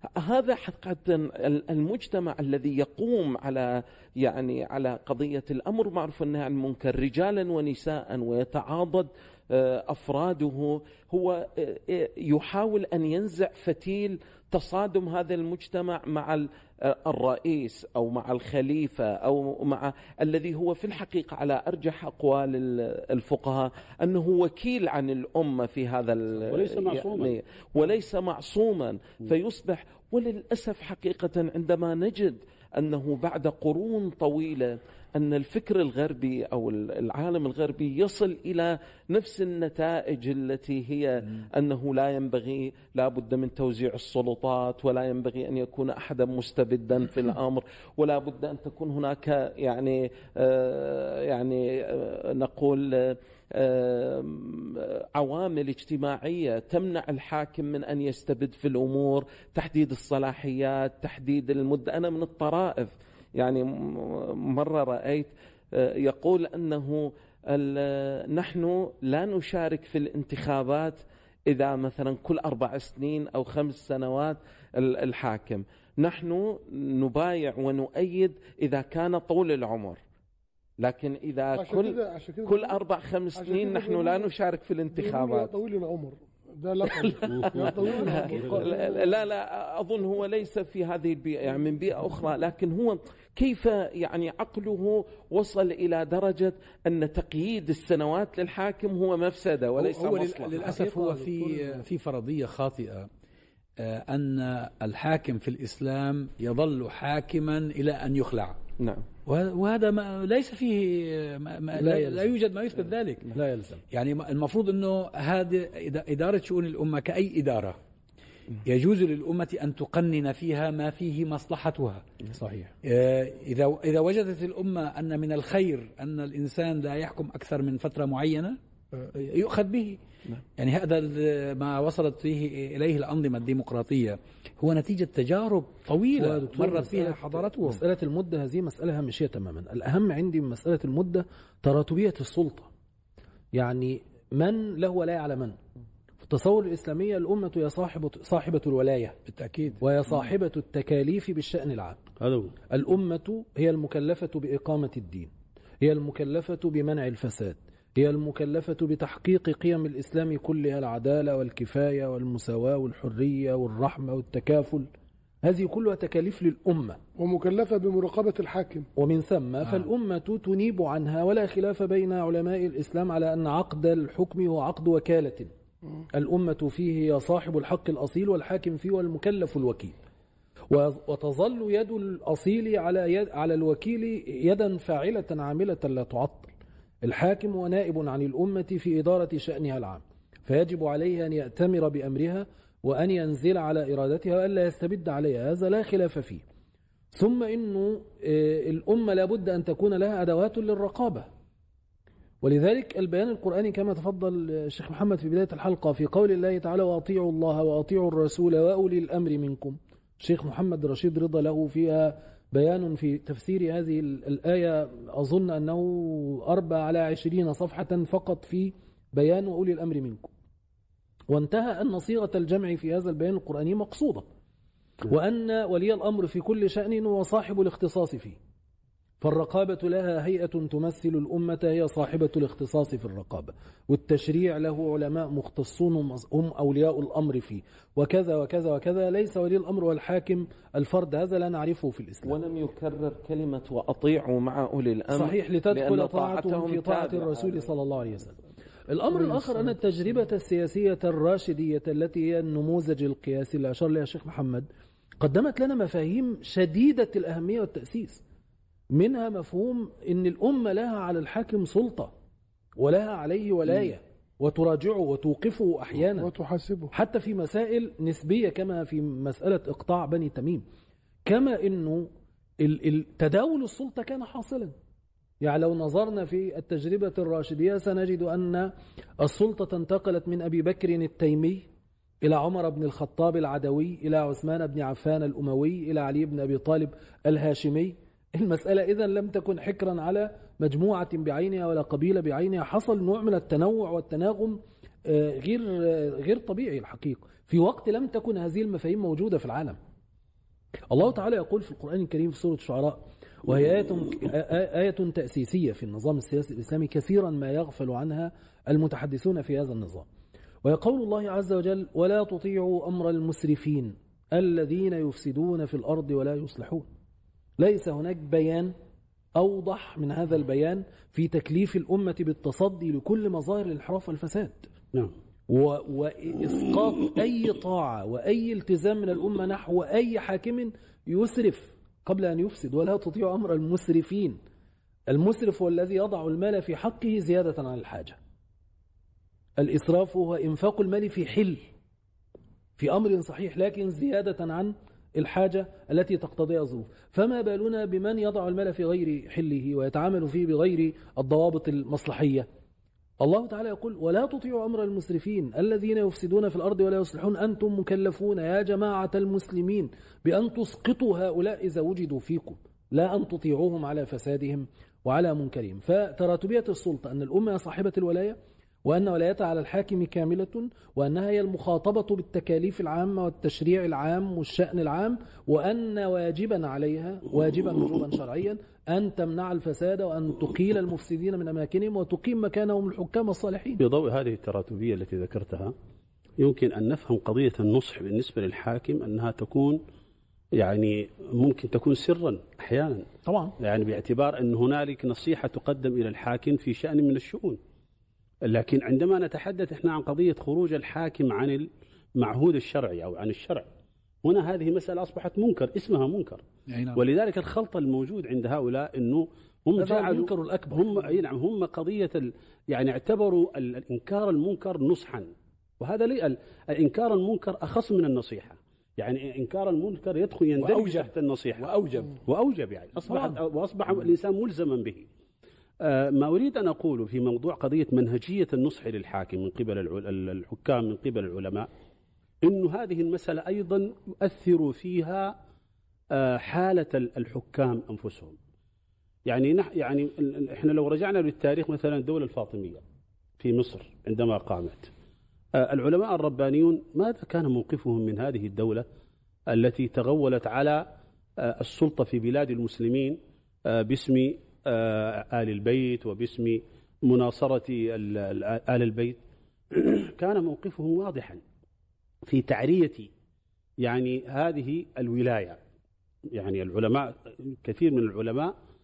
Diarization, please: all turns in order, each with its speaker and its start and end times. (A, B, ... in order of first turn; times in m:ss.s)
0:00.2-1:20.0 A
0:26.5-0:27.3 B
1:20.8-1:25.5 A
1:21.5-1:22.8 C
1:23.3-1:24.3 C
1:24.9-1:29.1 C
1:27.0-1:40.8 A
1:27.3-1:28.6 B
1:27.8-1:28.6 D
1:39.8-1:43.1 E
1:40.4-1:41.8 D
1:43.8-1:48.6 E
1:48.8-1:49.0 A
1:49.2-1:53.3 E
1:51.8-1:52.3 D
1:53.3-1:53.8 D
1:53.9-1:57.8 E
1:58.6-2:02.0 E
2:02.3-2:02.7 D
2:02.8-2:10.0 E
2:10.6-2:17.8 E
2:16.1-2:22.7 D
2:23.5-2:25.6 D
2:26.2-2:29.2 D
2:29.3-2:29.8 E
2:29.8-2:32.0 D
2:32.2-2:32.5 B
2:32.7-2:35.3 D
2:35.8-2:44.9 D
2:45.4-2:47.0 D
2:47.2-2:48.9 C
2:49.0-2:55.5 D
2:56.1-2:59.9 D
3:00.7-3:06.5 D
3:07.0-3:16.4 D
3:17.1-3:21.3 D
3:22.4-3:40.3 D
3:41.3-3:44.3 D
3:45.1-3:48.4 D
3:49.2-4:02.4 D
4:02.2-4:07.6 A
4:05.1-4:08.4 D
4:08.9-4:14.7 D
4:15.2-4:18.2 D
4:18.9-4:22.1 D
4:22.8-4:26.3 D
4:26.2-4:26.9 C
4:26.9-4:30.6 D
4:31.2-4:32.1 D
4:32.6-4:34.7 D
4:35.4-4:41.6 D
4:42.2-4:59.8 D
5:00.9-5:10.1 D
5:10.6-5:16.9 D
5:17.6-5:18.7 D
5:19.4-5:24.7 D
5:25.5-5:34.4 D
5:35.1-5:38.2 D
5:39.6-5:41.6 D
5:42.8-5:52.5 D
5:53.2-6:23.8 D
6:23.8-6:25.7 B
6:26.4-6:29.8 B
6:30.6-6:33.1 B
6:33.2-6:33.5 D
6:33.6-6:37.6 B
6:38.4-6:43.7 B
6:44.2-6:46.4 B
6:46.7-6:47.0 E
6:46.9-7:01.7 B
6:49.8-6:50.9 D
7:00.6-7:02.2 E
7:02.2-7:05.1 B
7:05.8-7:11.7 B
7:12.4-7:15.3 B
7:16.1-7:18.4 B
7:19.3-7:22.8 B
7:23.4-7:24.9 B
7:25.5-7:28.8 B
7:29.5-7:30.9 B
7:31.4-7:39.2 B
7:39.7-7:41.4 B
7:42.3-7:43.1 B
7:43.8-7:45.6 B
7:46.3-7:48.5 B